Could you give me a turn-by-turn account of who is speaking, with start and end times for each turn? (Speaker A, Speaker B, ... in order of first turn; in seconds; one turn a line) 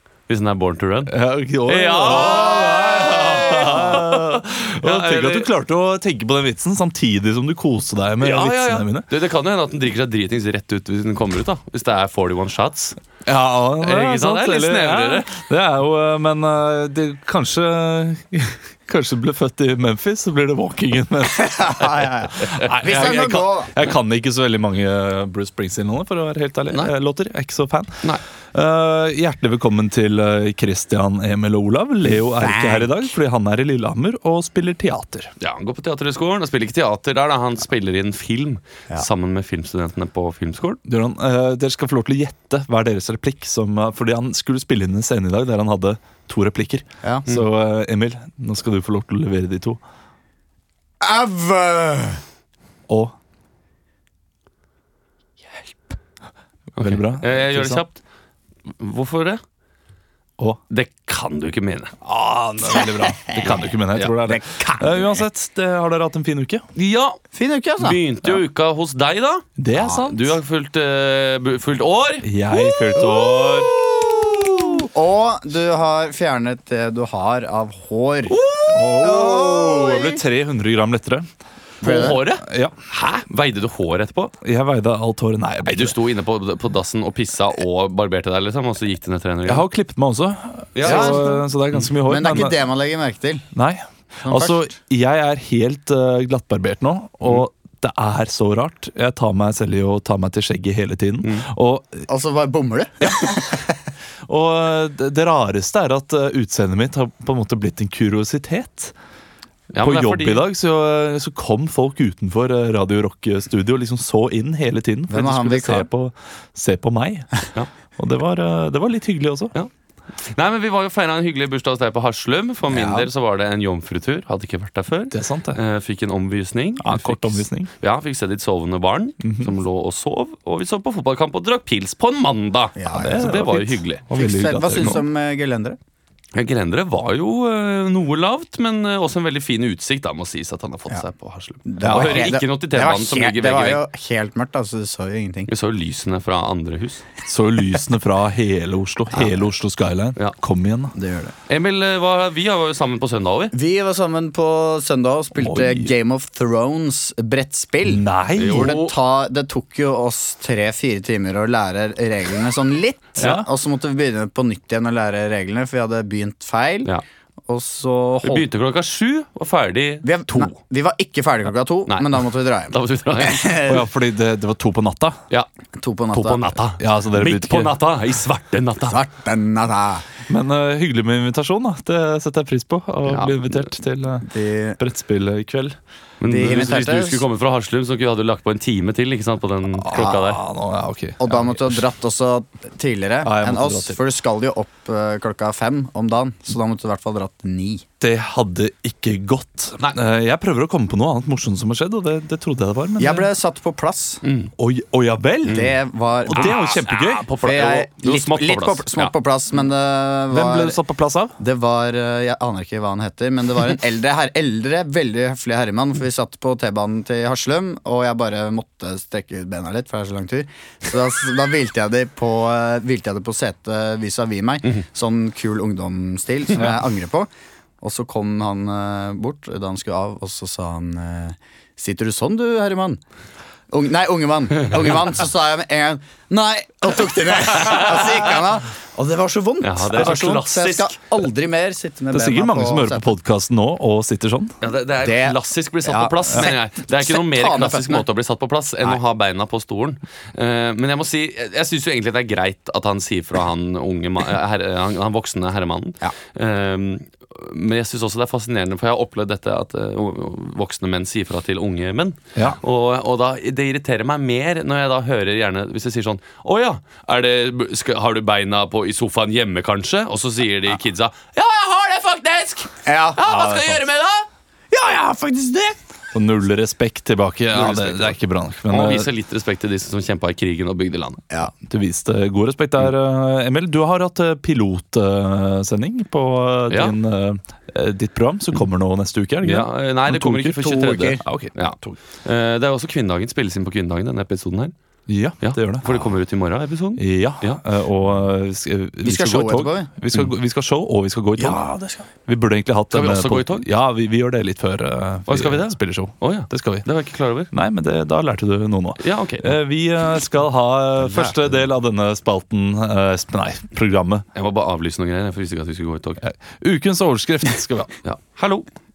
Speaker A: 0.3-1.1
Speaker B: 1.1-9.1
Speaker A: 1.7-5.5
Speaker A: 8.2-13.0
Speaker B: 13.2-35.3
Speaker A: 13.8-15.3
Speaker C: 21.4-23.7
Speaker C: 32.4-33.1
Speaker A: 35.4-40.8
Speaker B: 40.9-49.8
Speaker C: 51.0-52.2
Speaker B: 52.9-53.1
Speaker B: 56.8-57.8
Speaker A: 56.8-58.0
Speaker A: 58.8-59.4
Speaker A: 60.7-61.9
Speaker B: 62.0-66.7
Speaker A: 63.4-64.2
Speaker C: 64.2-65.1
Speaker A: 66.8-67.2
Speaker C: 67.3-68.0
Speaker A: 67.8-72.3
Speaker B: 69.6-70.4
Speaker B: 72.2-73.7
Speaker C: 72.6-80.2
Speaker A: 78.3-78.7
Speaker B: 78.7-81.3
Speaker A: 81.8-84.3
Speaker C: 81.8-82.2
Speaker B: 82.0-82.7
Speaker B: 84.4-86.0
Speaker A: 85.7-89.7
Speaker B: 89.5-92.6
Speaker A: 90.8-91.8
Speaker C: 90.8-91.5
Speaker C: 92.0-93.5
Speaker B: 93.5-102.1
Speaker C: 94.2-94.7
Speaker C: 102.1-103.8
Speaker B: 103.0-103.3
Speaker B: 104.3-108.9
Speaker A: 109.7-110.5
Speaker B: 109.8-117.3
Speaker C: 115.1-115.9
Speaker B: 118.0-119.5
Speaker A: 120.3-134.1
Speaker C: 122.7-123.1
Speaker B: 125.1-125.6
Speaker B: 126.8-127.7
Speaker B: 129.2-129.5
Speaker C: 132.8-133.4
Speaker B: 132.9-135.0
Speaker C: 134.1-135.8
Speaker A: 134.7-135.0
Speaker A: 136.3-143.8
Speaker C: 141.7-145.5
Speaker B: 141.8-142.4
Speaker A: 145.5-147.0
Speaker B: 147.3-150.9
Speaker C: 150.9-151.3
Speaker A: 151.5-153.5
Speaker C: 153.5-166.9
Speaker B: 155.3-155.9
Speaker B: 157.8-158.8
Speaker A: 158.4-158.9
Speaker B: 163.2-163.5
Speaker C: 167.5-168.5
Speaker A: 168.2-170.5
Speaker C: 170.0-173.8
Speaker A: 171.9-173.8
Speaker B: 173.7-175.2
Speaker C: 175.8-176.6
Speaker A: 176.1-179.0
Speaker B: 176.8-177.8
Speaker C: 178.9-180.0
Speaker B: 180.3-184.3
Speaker A: 183.1-183.7
Speaker C: 184.2-184.8
Speaker B: 184.8-185.8
Speaker A: 186.2-190.4
Speaker C: 186.3-187.2
Speaker B: 189.8-191.8
Speaker C: 191.2-197.8
Speaker B: 193.2-194.0
Speaker B: 198.0-203.3
Speaker C: 203.0-204.2
Speaker A: 204.2-204.5
Speaker B: 204.6-207.3
Speaker A: 205.4-205.7
Speaker C: 205.5-206.8
Speaker A: 206.3-209.1
Speaker C: 207.4-210.8
Speaker B: 210.3-211.3
Speaker C: 211.4-227.3
Speaker C: 227.8-233.0
Speaker C: 233.7-243.1
Speaker A: 239.6-241.0
Speaker B: 242.1-244.6
Speaker A: 244.6-274.3
Speaker C: 245.0-248.1
Speaker C: 272.9-273.8
Speaker C: 274.7-275.8
Speaker B: 276.1-279.1
Speaker A: 277.5-278.2
Speaker A: 278.7-281.2
Speaker B: 281.5-290.6
Speaker A: 286.7-286.9
Speaker A: 289.4-294.7
Speaker C: 290.6-291.2
Speaker B: 291.2-292.0
Speaker B: 295.1-296.1
Speaker A: 295.4-297.6
Speaker B: 297.0-301.6
Speaker C: 299.0-299.9
Speaker C: 301.4-302.1
Speaker B: 302.3-306.9
Speaker A: 302.9-303.7
Speaker A: 305.3-307.5
Speaker B: 307.5-314.3
Speaker A: 309.0-309.6
Speaker C: 311.1-311.4
Speaker A: 314.4-316.2
Speaker B: 316.2-317.9
Speaker A: 318.0-318.7